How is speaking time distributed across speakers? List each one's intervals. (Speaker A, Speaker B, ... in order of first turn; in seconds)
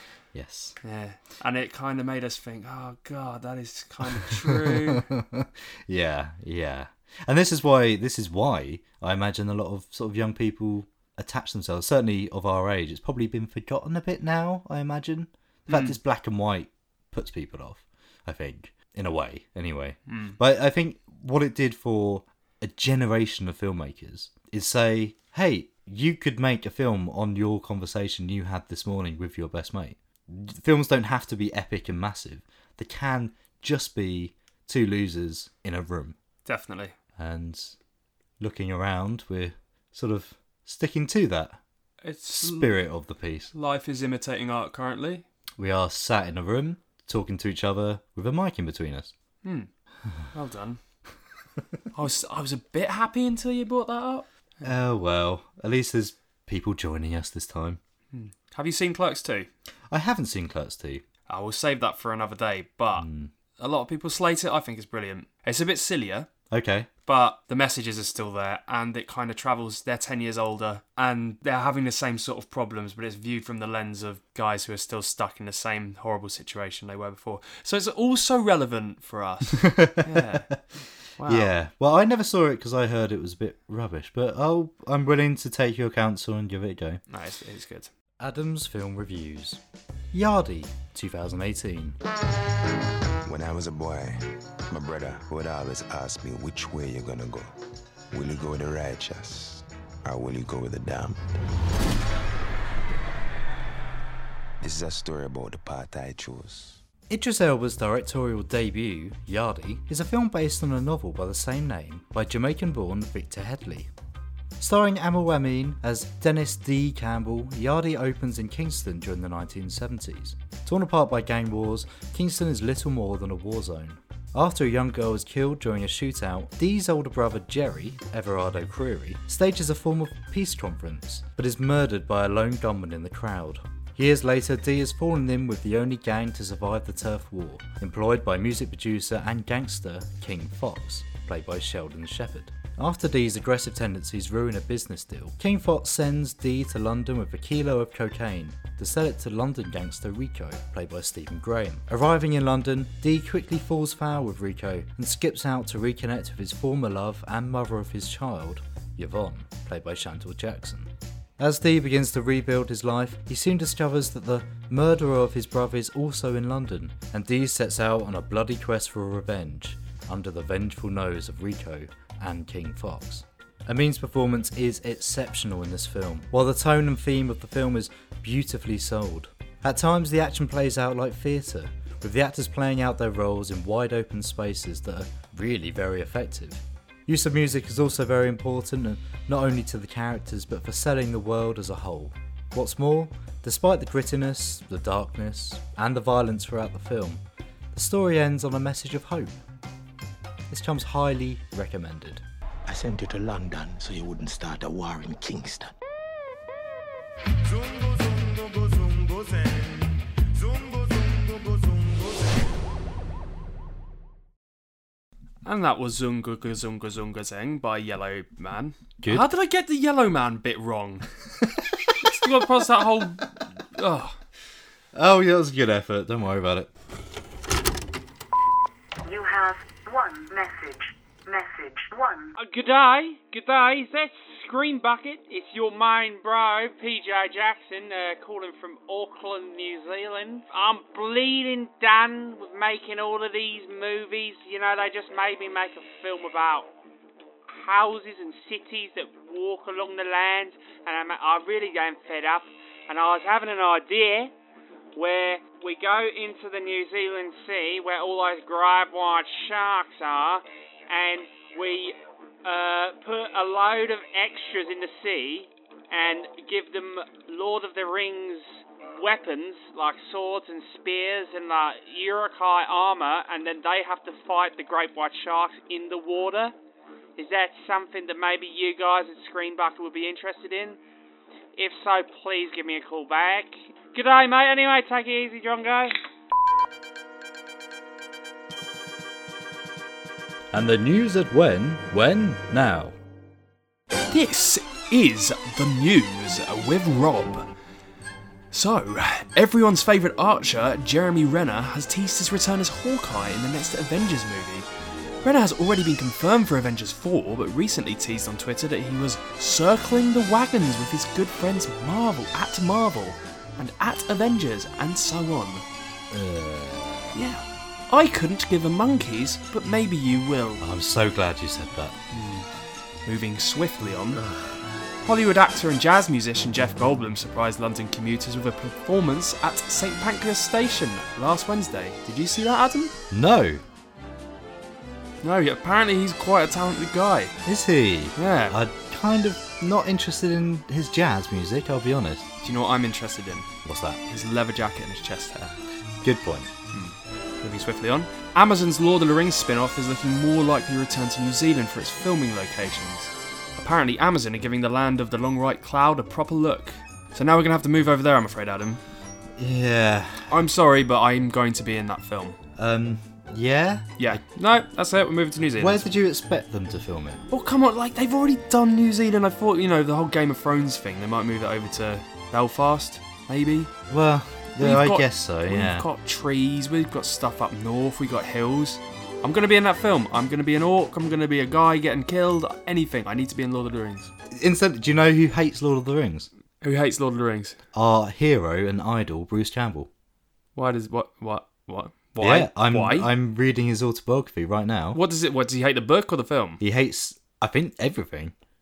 Speaker A: 0.3-0.8, 4.2-36.2, 37.2-37.8, 38.4-41.6, 42.3-43.5, 45.6-49.1, 54.6-57.8, 59.9-61.0, 63.0-63.3, 66.5-66.9, 79.6-80.6, 81.2-87.0, 88.2-89.6, 90.1-92.0, 107.1-113.9, 114.6-197.2, 197.7-199.4, 200.5-202.2, 219.0-219.3, 224.9-226.7, 290.5-292.9, 316.1-317.1, 320.6-322.0, 324.1-324.6, 333.1-333.6, 337.4-342.3, 343.6-344.0, 346.0-346.5, 359.4-360.3, 362.6-364.2, 365.6-367.2, 373.9-375.9, 384.3-386.3, 387.7-389.9, 392.2-395.0, 396.6-398.3
Speaker B: 0.8-5.0, 15.7-16.0, 20.1-20.4, 36.5-36.9, 42.0-42.8, 43.5-45.2, 49.4-49.7, 50.3-50.8, 51.9-54.7, 58.1-59.5, 61.3-63.1, 63.6-66.3, 67.0-80.5, 81.2-81.5, 87.1-87.9, 215.4-221.1, 222.0-224.2, 294.1-297.5, 298.5-304.7, 305.2-315.6, 317.1-320.6, 322.1-322.5, 323.0-324.2, 325.0-332.9, 335.2-337.3, 338.1-338.6, 342.4-343.5, 344.1-345.5, 346.7-358.8, 360.3-362.4, 364.0-365.9, 367.3-373.7, 374.6-384.1, 386.6-387.6, 390.6-393.1, 394.9-396.6
Speaker C: 93.2-97.5, 98.1-101.2, 104.6-106.8
Speaker D: 202.7-205.7, 207.4-212.6
Speaker E: 229.0-232.3
Speaker F: 232.4-246.7, 247.5-254.3, 254.9-276.5, 277.2-280.8, 281.6-285.9